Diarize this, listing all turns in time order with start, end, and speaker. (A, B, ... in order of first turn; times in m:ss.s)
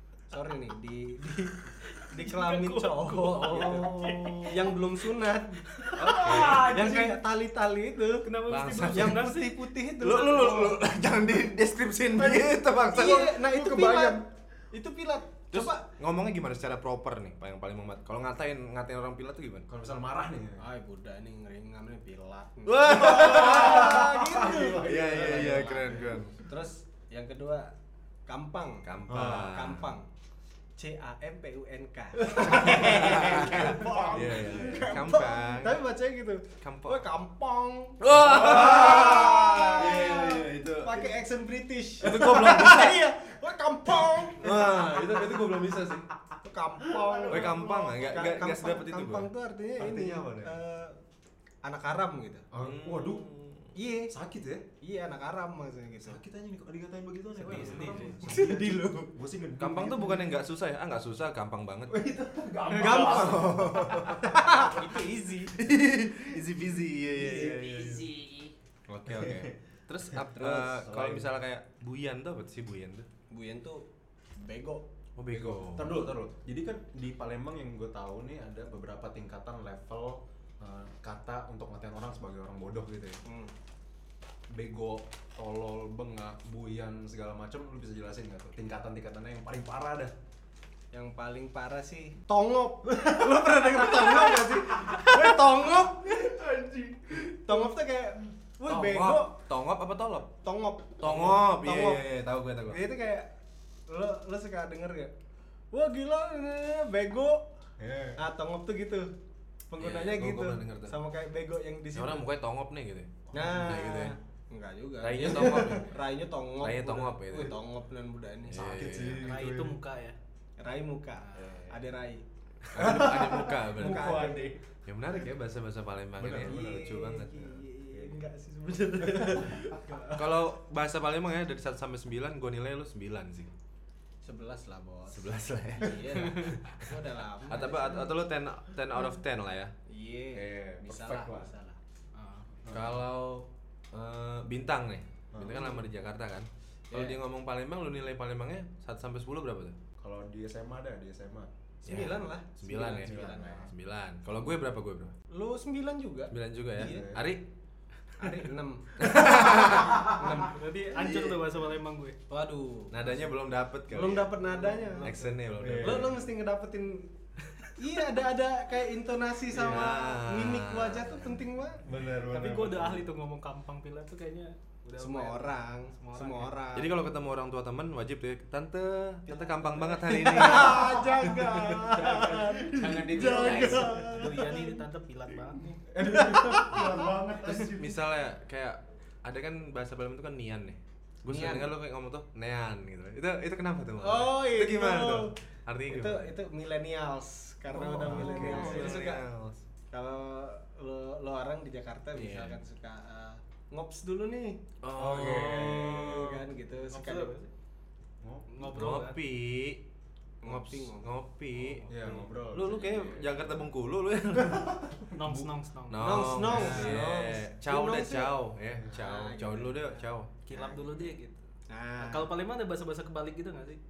0:00.3-0:08.3 A
0:01.8-0:04.9 B
0:03.5-0:04.6 C
0:05.7-0:07.2 B
0:06.0-0:07.1 D
0:06.2-0:06.8 C
0:08.2-0:09.5 B
0:08.5-0:09.3 C
0:08.9-0:10.8 A
0:10.0-0:13.4 C
0:12.9-0:15.8 A
0:12.9-0:14.2 D
0:15.5-0:19.7 C
0:19.7-0:20.6 D
0:20.6-0:27.7 A
0:22.7-0:26.4 C
0:22.9-0:26.2 D
0:28.3-0:30.0 A
0:28.8-0:29.9 C
0:29.1-0:29.7 D
0:30.8-0:45.6 A
0:32.4-0:35.0 D
0:32.4-0:35.8 C
0:36.6-0:37.0 C
0:38.0-0:41.1 C
0:38.2-0:40.3 D
0:42.0-0:43.0 C
0:42.1-0:42.6 D
0:44.4-0:46.1 C
0:46.4-0:51.0 A
0:46.8-0:48.1 D
0:47.3-0:49.3 C
0:49.8-0:50.6 D
0:51.6-0:52.4 A
0:52.5-0:53.3 D
0:52.6-0:53.7 C
0:53.7-0:54.1 A
0:54.1-0:54.6 D
0:54.8-0:56.2 A
0:56.0-1:00.3 D
0:57.4-0:59.1 A
0:57.4-0:58.1 B
0:57.5-0:58.0 C
0:59.6-1:02.0 C
1:01.9-1:05.0 D
1:02.7-1:05.6 A
1:02.7-1:04.3 C
1:05.6-1:08.0 C
1:07.2-1:08.3 D
1:07.2-1:07.9 A
1:08.9-1:13.1 C
1:09.0-1:09.5 D
1:10.1-1:11.3 D
1:10.4-1:10.6 A
1:13.3-1:13.8 A
1:14.4-1:14.8 A
1:15.2-1:16.0 C
1:15.3-1:23.2 D
1:23.2-1:23.5 A
1:24.5-1:30.1 D
1:30.9-1:36.3 A
1:32.9-1:37.7 D
1:37.3-1:39.3 A
1:38.7-1:40.3 C
1:40.4-1:42.0 A
1:41.0-1:42.8 C
1:42.7-1:43.3 A
1:43.9-1:45.1 A
1:45.7-1:47.4 A
1:47.8-1:48.2 D
1:48.2-1:49.1 A
1:49.7-1:52.2 A
1:49.8-1:51.0 C
1:51.9-1:53.1 C
1:53.3-1:53.8 D
1:53.3-1:58.8 A
1:53.6-1:54.1 C
1:55.0-1:55.9 C
1:56.6-1:57.6 C
1:58.5-1:59.2 C
1:58.5-1:59.8 D
1:59.2-2:00.2 B
2:00.6-2:02.2 A
2:01.3-2:01.6 B
2:02.7-2:04.3 C
2:02.7-2:04.6 D
2:02.8-2:04.5 A
2:04.8-2:07.5 C
2:06.2-2:07.2 D
2:06.4-2:10.4 A
2:07.9-2:08.2 D
2:09.0-2:09.8 D
2:10.1-2:13.5 C
2:14.2-2:18.2 A
2:15.1-2:16.9 C
2:17.5-2:19.7 C
2:19.9-2:21.8 A
2:20.3-2:21.5 D
2:22.1-2:22.5 B
2:22.6-2:23.0 D
2:22.7-2:29.7 C
2:25.3-2:25.8 D
2:26.9-2:27.2 A
2:30.0-2:32.1 D
2:31.8-2:35.1 C
2:31.8-2:33.7 A
2:33.0-2:33.7 D
2:35.3-2:37.1 A
2:36.3-2:37.4 C
2:36.8-2:37.2 D
2:38.2-2:40.6 A
2:39.0-2:40.0 C
2:39.9-2:40.4 D
2:40.2-2:42.2 B
2:42.3-2:43.3 A
2:42.9-2:46.2 C
2:43.9-2:45.2 A
2:44.6-2:45.2 B
2:45.6-2:46.2 D
2:45.8-2:47.1 A
2:47.8-2:51.9 A
2:49.5-2:51.4 C
2:49.6-2:49.9 D
2:51.8-2:53.1 D
2:52.1-2:56.5 B
2:55.0-2:57.0 A
2:56.7-3:01.6 C
2:59.6-3:04.4 D
3:00.1-3:04.7 A
3:03.2-3:03.8 C
3:04.0-3:05.8 B
3:05.9-3:08.0 D
3:06.0-3:06.9 A
3:07.6-3:16.3 C
3:11.3-3:11.7 A
3:14.0-3:15.3 A
3:15.9-3:19.2 A
3:17.7-3:19.0 D
3:18.0-3:19.6 C
3:19.9-3:27.3 A
3:22.1-3:22.6 C
3:24.8-3:26.4 C
3:24.9-3:26.2 D
3:26.9-3:27.5 B
3:28.2-3:28.5 D
3:28.5-3:29.2 B
3:28.7-3:29.8 C
3:30.4-3:32.2 A
3:30.4-3:31.9 C
3:31.9-3:33.7 D
3:32.5-3:34.8 C
3:34.4-3:35.5 D
3:35.1-3:36.9 B
3:35.9-3:40.3 C
3:36.0-3:38.3 A
3:38.9-3:41.1 A
3:40.4-3:41.5 B
3:41.7-3:42.3 A
3:42.0-3:43.8 B